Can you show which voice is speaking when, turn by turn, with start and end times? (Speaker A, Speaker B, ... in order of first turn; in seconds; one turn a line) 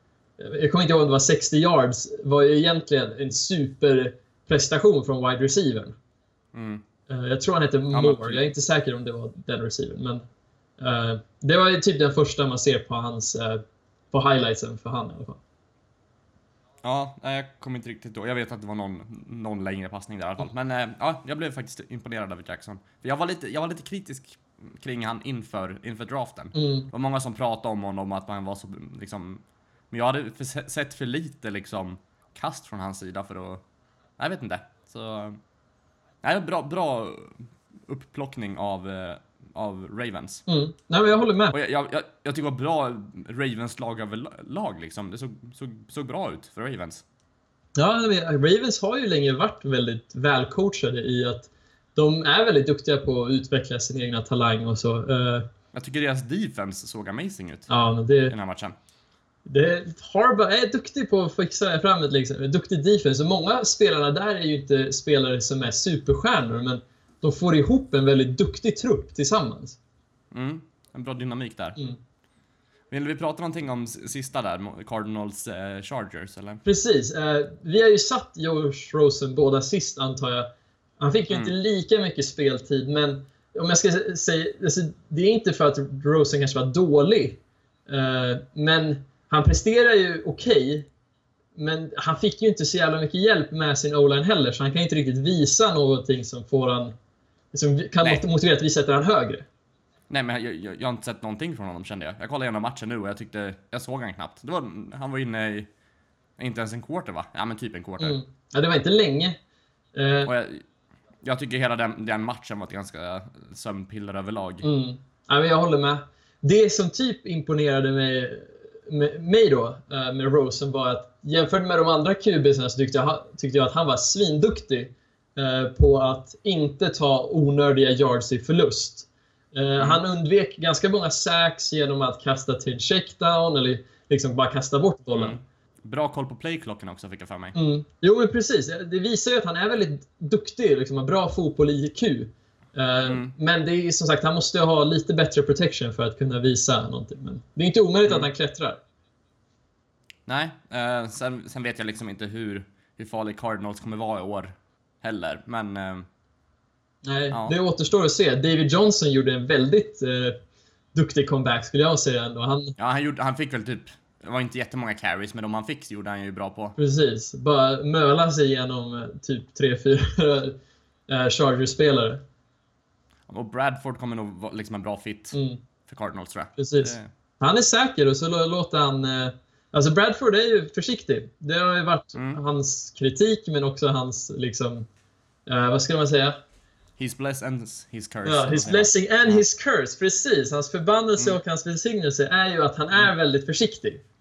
Speaker A: 0.4-6.0
Speaker B: 6.5-6.8
Speaker A: 7.1-10.2
Speaker B: 7.9-8.4
Speaker A: 10.8-15.4
Speaker B: 16.8-33.6
Speaker A: 26.6-26.9
Speaker B: 34.2-35.4
Speaker B: 36.2-40.4
Speaker A: 40.5-41.6
Speaker B: 41.5-47.0
Speaker A: 47.8-55.5
Speaker B: 55.7-57.7
Speaker A: 57.7-58.3
Speaker B: 58.3-58.8
Speaker A: 59.5-69.8
Speaker B: 70.3-71.8
Speaker B: 72.9-76.6
Speaker A: 76.6-80.5
Speaker A: 81.0-90.9
Speaker A: 91.6-97.0
Speaker A: 97.5-99.5
Speaker B: 100.1-105.7
Speaker B: 106.4-108.2
Speaker A: 108.0-109.4
Speaker A: 110.0-110.3
Speaker B: 110.3-110.7
Speaker B: 111.2-114.7
Speaker A: 114.6-135.4
Speaker B: 135.1-137.6
Speaker A: 137.6-148.8
Speaker B: 143.1-143.3
Speaker B: 150.3-156.1
Speaker A: 157.1-160.4
Speaker A: 160.9-162.8
Speaker B: 162.8-166.8
Speaker A: 166.8-170.6
Speaker A: 171.1-172.2
Speaker B: 173.3-177.1
Speaker A: 175.3-175.6
Speaker A: 176.6-184.9
Speaker B: 182.1-182.4
Speaker A: 185.5-186.4
Speaker B: 187.0-189.4
Speaker A: 188.2-194.0